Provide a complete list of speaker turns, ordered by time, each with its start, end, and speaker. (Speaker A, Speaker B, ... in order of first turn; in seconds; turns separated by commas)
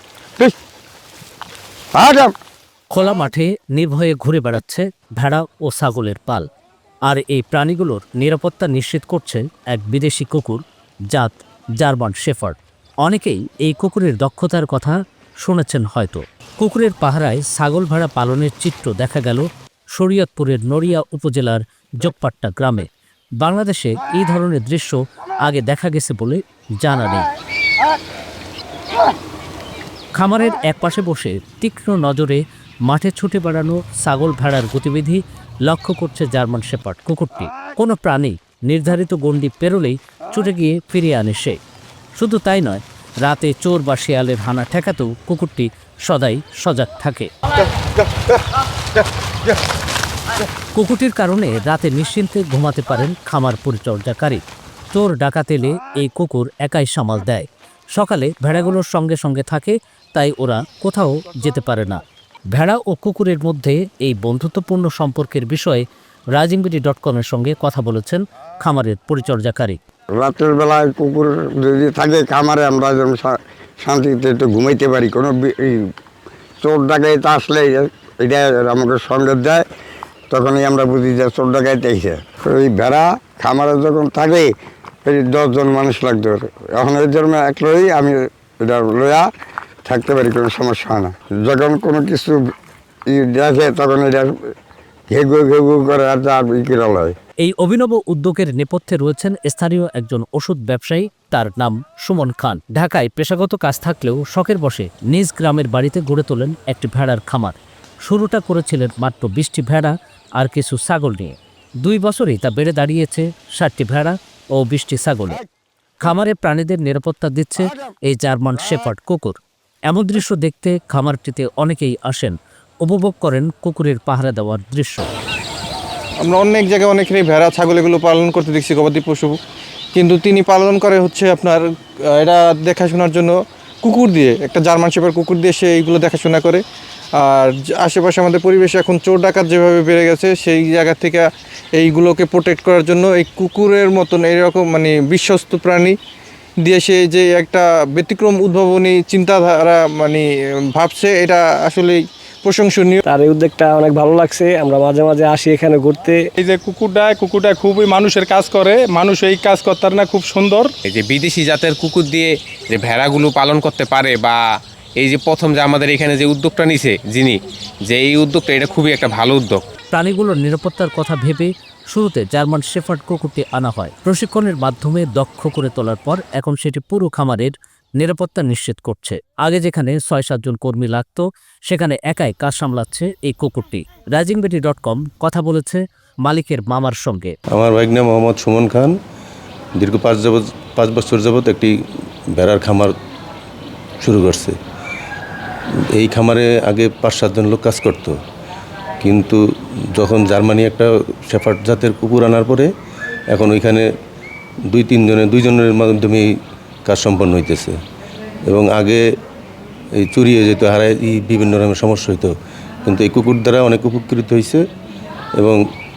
Speaker A: 1.9-2.3, Speaker B: 2.9-6.5, Speaker B: 7.1-10.6, Speaker B: 11.1-22.9, Speaker B: 23.4-27.3, Speaker B: 30.1-41.6, Speaker B: 42.1-47.3, Speaker B: 50.7-54.4, Speaker B: 54.9-65.8, Speaker B: 66.3-69.8, Speaker A: 70.2-75.8, Speaker A: 76.6-79.6, Speaker A: 80.3-84.5, Speaker A: 85.0-89.2, Speaker A: 89.8-92.3, Speaker A: 93.1-94.3, Speaker A: 95.1-97.1, Speaker B: 97.4-115.4, Speaker B: 116.0-119.3, Speaker B: 119.9-125.1, Speaker C: 126.2-129.4, Speaker C: 129.9-131.6, Speaker C: 132.2-136.6, Speaker C: 137.2-145.9, Speaker C: 146.6-153.0, Speaker D: 153.0-156.3, Speaker E: 156.4-160.7, Speaker F: 160.9-164.4, Speaker F: 165.0-167.3, Speaker F: 167.9-169.6, Speaker B: 169.9-187.3, Speaker G: 187.5-188.9, Speaker G: 189.8-191.7, Speaker G: 192.3-192.9, Speaker G: 194.0-194.6, Speaker G: 195.9-198.2, Speaker G: 199.0-199.4, Speaker G: 199.9-202.7, Speaker G: 203.3-203.8, Speaker G: 204.7-206.2, Speaker G: 206.8-207.8, Speaker G: 208.5-209.0, Speaker G: 210.0-212.3, Speaker G: 212.8-214.6